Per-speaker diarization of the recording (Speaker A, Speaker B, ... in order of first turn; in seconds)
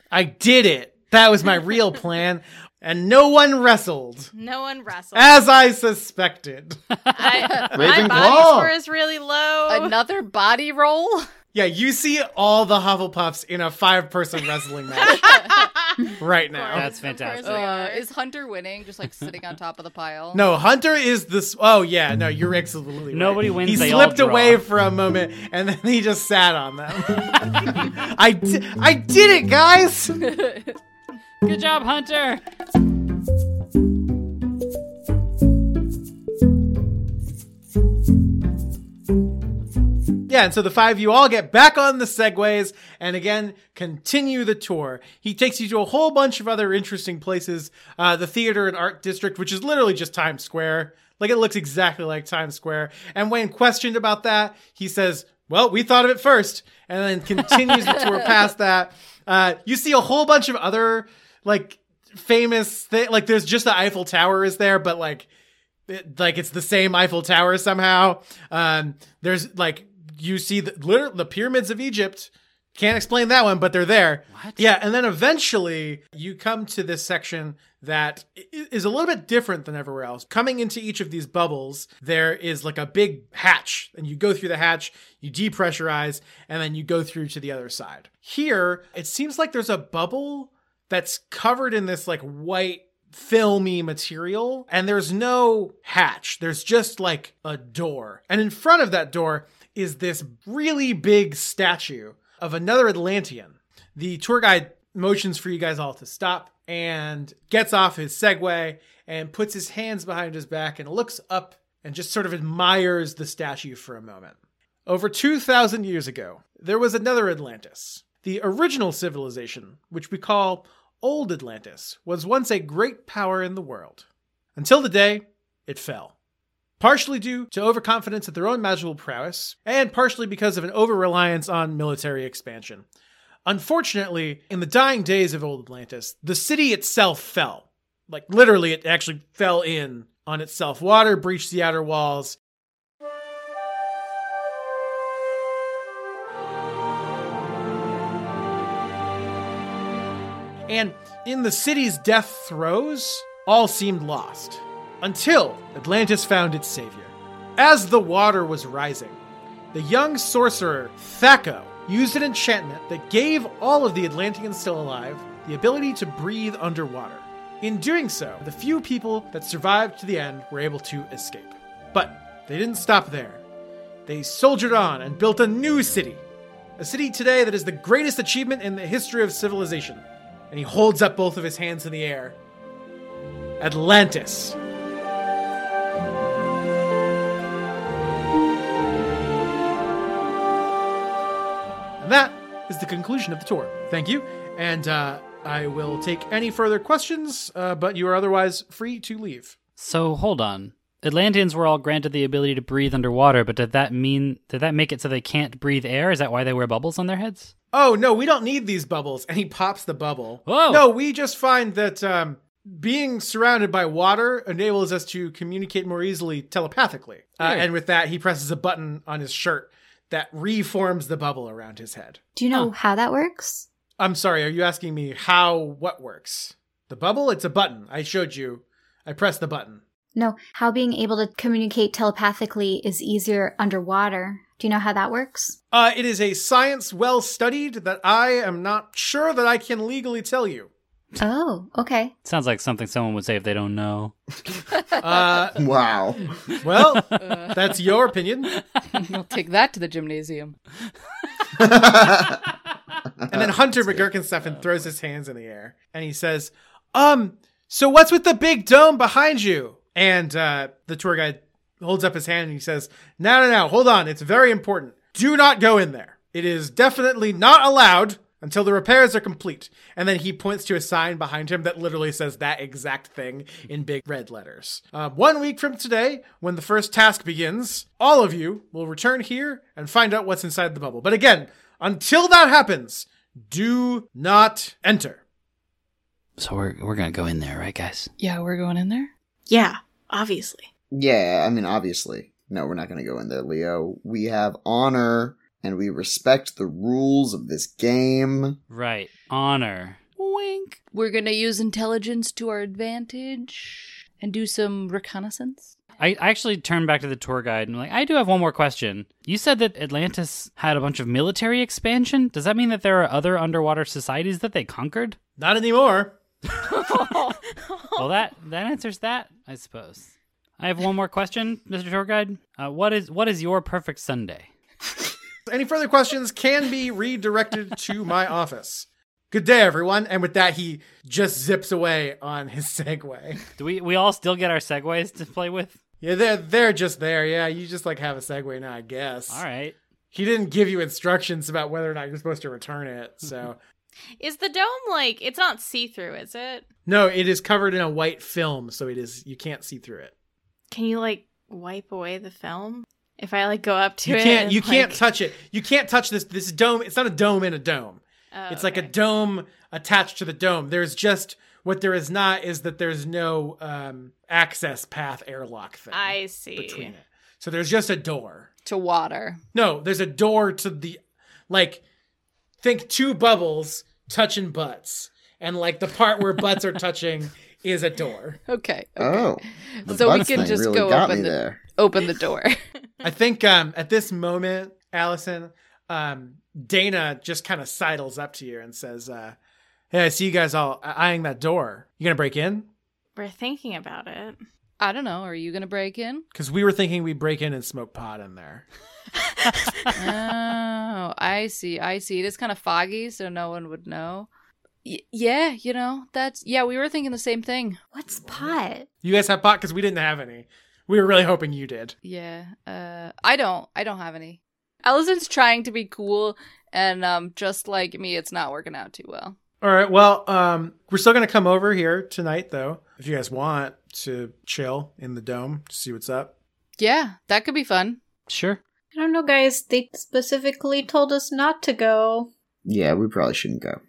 Speaker A: 0.1-4.3, 5.2-6.8, 11.5-15.5, 16.2-16.9, 20.3-30.2, 40.3-65.3, 65.9-124.0, 124.6-126.1, 126.8-132.8, 133.5-142.4, 150.7-159.2, 159.7-173.4, 174.1-176.2, 176.8-182.4, 183.6-184.6, 192.0-199.6, 207.7-222.2, 224.0-229.8, 235.7-240.7, 245.0-245.6, 246.6-248.5, 253.3-285.2, 315.4-316.2, 325.5-333.4, 336.0-339.4, 340.1-343.6, 346.9-350.1, 354.1-368.5, 369.5-371.8, 372.6-378.4, 383.0-389.4, 389.9-392.7, 396.3-398.7, 408.3-411.9, 419.6-426.3
Speaker B: 4.3-5.3, 7.1-9.9, 15.1-18.1, 289.5-290.7, 317.5-318.1, 344.2-346.7, 350.7-355.0, 358.3-358.9, 365.9-366.9, 393.2-394.4, 399.4-399.9
Speaker C: 7.0-8.0, 16.7-17.7, 23.1-24.6, 27.5-27.9, 31.4-32.4, 74.3-74.6, 199.8-207.5, 210.5-210.9, 217.4-217.7, 242.2-244.2, 254.5-254.9, 286.4-288.1, 298.7-300.0, 306.0-315.2, 318.0-324.5, 333.6-335.8, 339.3-339.8, 428.3-428.6
Speaker D: 7.7-8.7, 245.5-246.6, 251.6-252.4, 253.2-254.0, 290.9-298.6, 379.0-381.6, 432.7-433.8
Speaker E: 9.7-11.3, 17.4-20.4, 30.3-30.7, 247.2-247.6, 248.9-250.6, 288.2-289.1, 300.2-305.8, 316.6-317.4, 368.6-369.4, 378.5-382.6, 394.8-396.2, 399.9-404.3, 404.8-407.8, 412.0-419.4, 426.8-428.0
Speaker F: 222.4-223.7, 230.2-235.6, 241.2-242.1, 407.9-408.9, 428.9-432.3